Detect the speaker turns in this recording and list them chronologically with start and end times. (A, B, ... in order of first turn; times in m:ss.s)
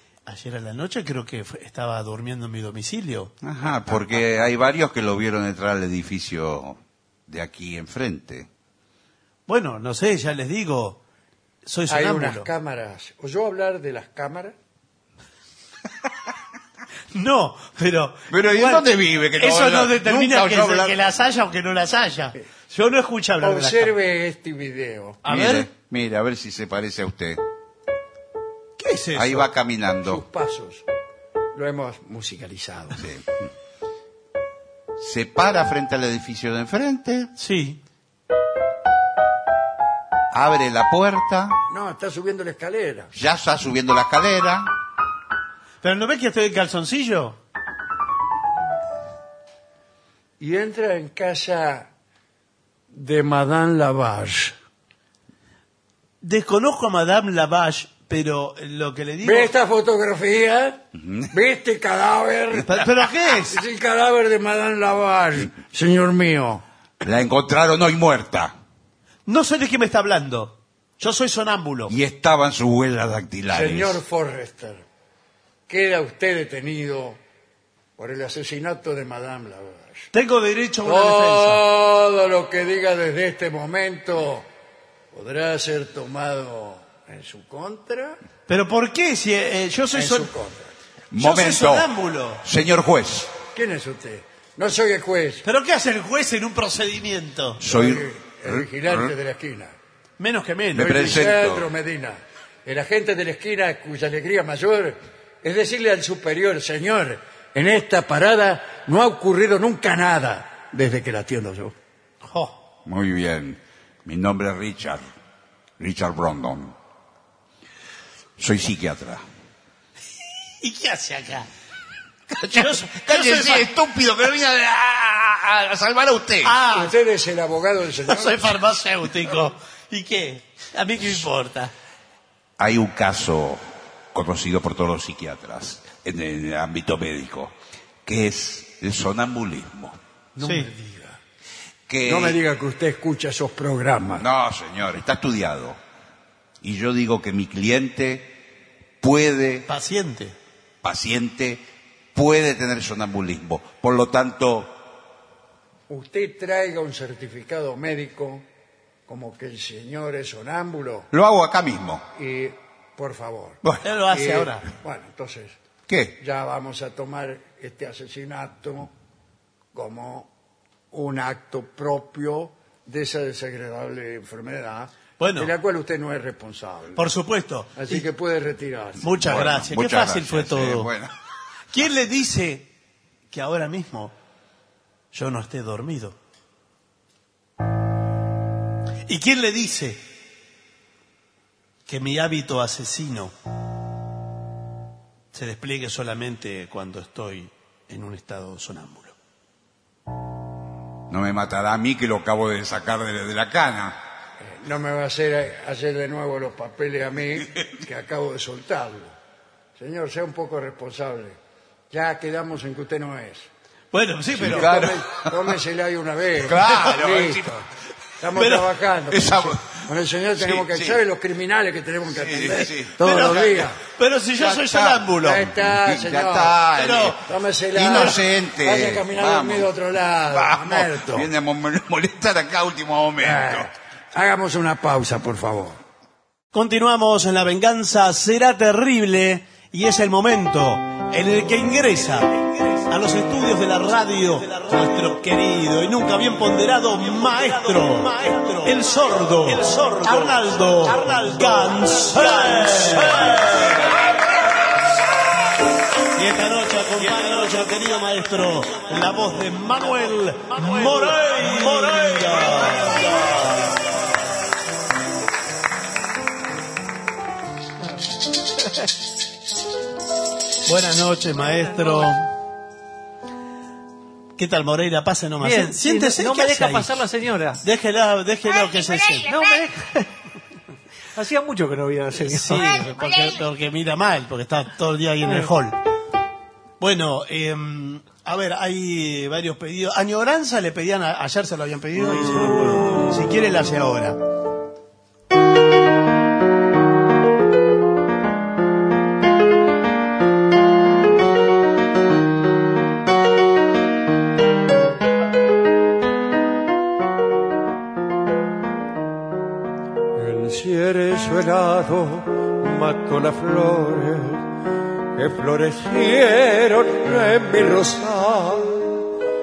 0:00.3-0:03.3 A
0:03.4-0:08.5 B
0:09.5-0:11.0 A
0:11.6-0:12.5 A
0:11.9-0:14.5 C
0:17.1-0:23.9 A
0:18.3-0:21.0 B
0:23.4-0:25.2 C
0:25.2-0:25.7 A
0:25.2-0:27.4 B
0:28.8-0:29.5 A
0:29.1-0:30.2 B
0:30.0-0:30.8 C
0:31.5-0:33.0 C
0:33.0-0:33.2 B
0:35.0-0:37.3 B
0:37.4-0:37.8 A
0:40.3-0:41.6 B
0:41.7-0:43.1 C
0:43.1-0:44.7 B
0:45.8-0:47.4 A
0:50.4-0:51.9 C
0:52.9-0:54.5 C
0:56.2-0:59.5 A
0:59.2-1:02.9 C
1:01.0-1:01.3 B
1:02.7-1:03.6 A
1:03.4-1:06.6 C
1:07.0-1:08.5 B
1:09.3-1:11.9 A
1:11.9-1:14.0 B
1:13.5-1:14.8 C
1:15.7-1:17.2 C
1:18.0-1:20.1 C
1:20.1-1:21.6 A
1:20.8-1:24.4 C
1:25.1-1:28.2 C
1:28.5-1:30.3 A
1:29.9-1:30.7 C
1:31.1-1:33.3 B
1:31.1-1:32.4 A
1:33.5-1:35.4 C
1:35.4-1:37.6 A
1:37.6-1:39.1 B
1:37.6-1:39.7 C
1:40.2-1:41.2 A
1:40.7-1:41.7 B
1:40.8-1:51.7 C
1:52.2-1:52.5 A
1:52.8-1:55.0 B
1:55.8-1:56.7 B
1:58.4-1:59.2 B
2:00.6-2:01.5 A
2:02.3-2:06.5 B
2:02.5-2:03.7 A
2:06.4-2:07.0 A
2:06.7-2:08.4 C
2:08.0-2:11.7 A
2:12.6-2:13.6 B
2:14.1-2:17.5 B
2:18.0-2:20.0 B
2:20.4-2:21.2 C
2:20.4-2:20.7 A
2:21.9-2:22.4 B
2:22.0-2:24.2 C
2:24.1-2:25.8 B
2:26.6-2:28.3 B
2:29.0-2:29.7 B
2:29.7-2:30.3 A
2:30.8-2:31.6 B
2:32.1-2:34.7 B
2:35.9-2:38.4 C
2:39.1-2:41.1 C
2:41.1-2:42.0 B
2:42.2-2:45.6 C
2:43.8-2:44.6 A
2:45.9-2:46.2 B
2:46.2-2:48.9 C
2:49.7-2:50.3 C
2:50.9-2:57.0 C
2:55.2-2:55.5 A
2:57.0-2:58.0 A
2:57.8-2:59.0 C
2:59.0-3:00.9 A
2:59.1-3:01.1 B
3:01.7-3:02.7 A
3:03.3-3:04.1 A
3:05.1-3:06.1 A
3:09.1-3:10.0 A
3:11.9-3:13.3 A
3:15.3-3:19.1 A
3:21.1-3:24.0 B
3:24.4-3:29.1 C
3:29.8-3:31.4 C
3:31.9-3:33.5 C
3:33.9-3:34.9 A
3:34.4-3:37.6 C
3:34.4-3:35.5 B
3:36.4-3:37.5 B
3:36.6-3:36.9 A
3:38.2-3:43.8 C
3:38.4-3:38.7 A
3:39.1-3:39.8 B
3:40.4-3:41.0 B
3:42.1-3:43.6 B
3:42.5-3:45.5 A
3:44.4-3:47.2 B
3:45.2-3:46.6 C
3:46.7-3:47.2 A
3:47.2-3:51.3 C
3:47.7-3:49.7 B
3:50.3-3:53.7 B
3:53.2-3:55.8 C
3:56.5-4:14.0 A
4:16.1-4:23.8 A
4:30.6-4:32.3 A
4:31.5-4:32.1 D
4:34.4-4:37.0 A
4:35.4-4:37.6 D
4:37.6-4:39.3 A
4:39.2-4:40.1 D
4:41.1-4:42.9 D
4:42.2-4:45.8 A
4:45.2-4:45.5 D
4:46.8-4:54.2 A
5:10.1-5:14.4 E
5:15.2-5:19.0 E